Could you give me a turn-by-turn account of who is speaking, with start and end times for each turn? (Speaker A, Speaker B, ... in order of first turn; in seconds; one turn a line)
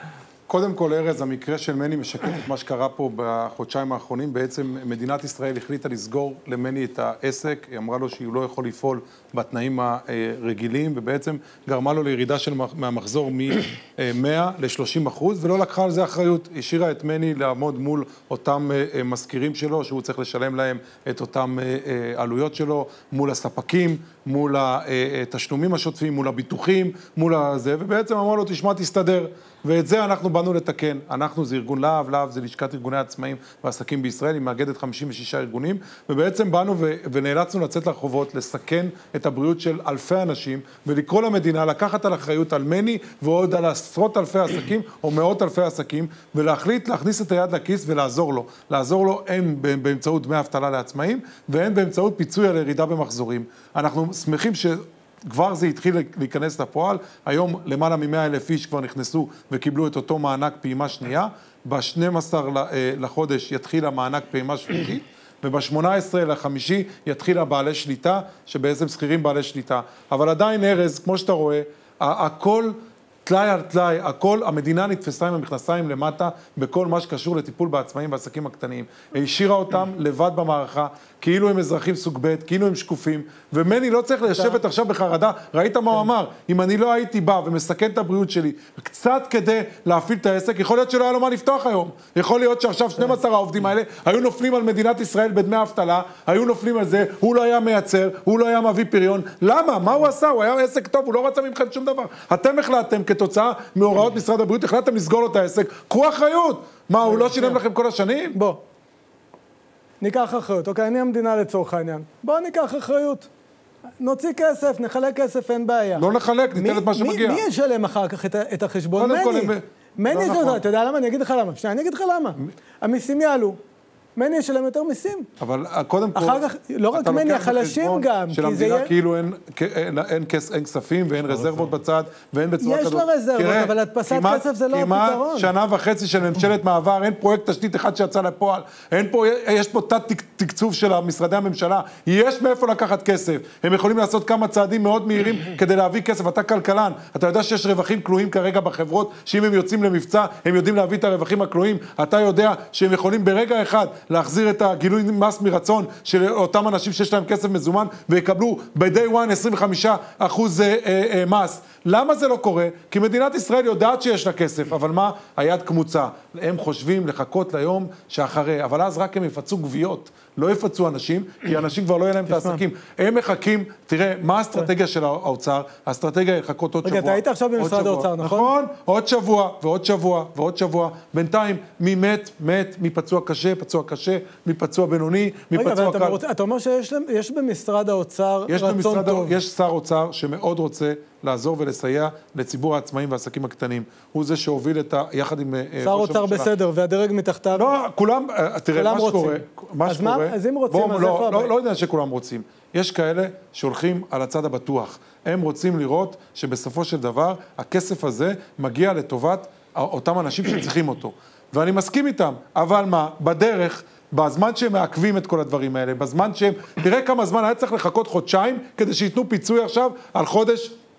Speaker A: 0.5-108.4
Speaker B: 107.0-107.6
Speaker B: 108.3-108.6
Speaker B: 110.0-113.3
Speaker B: 114.0-123.6
Speaker A: 116.0-117.4
Speaker A: 118.9-120.6
Speaker B: 124.2-125.3
Speaker A: 125.4-186.2
Speaker B: 126.1-128.9
Speaker B: 132.6-135.5
Speaker B: 172.3-172.6
Speaker B: 176.8-178.5
Speaker B: 185.5-189.3
Speaker A: 188.5-196.5
Speaker B: 195.8-197.7
Speaker A: 197.5-220.7
Speaker B: 198.7-201.5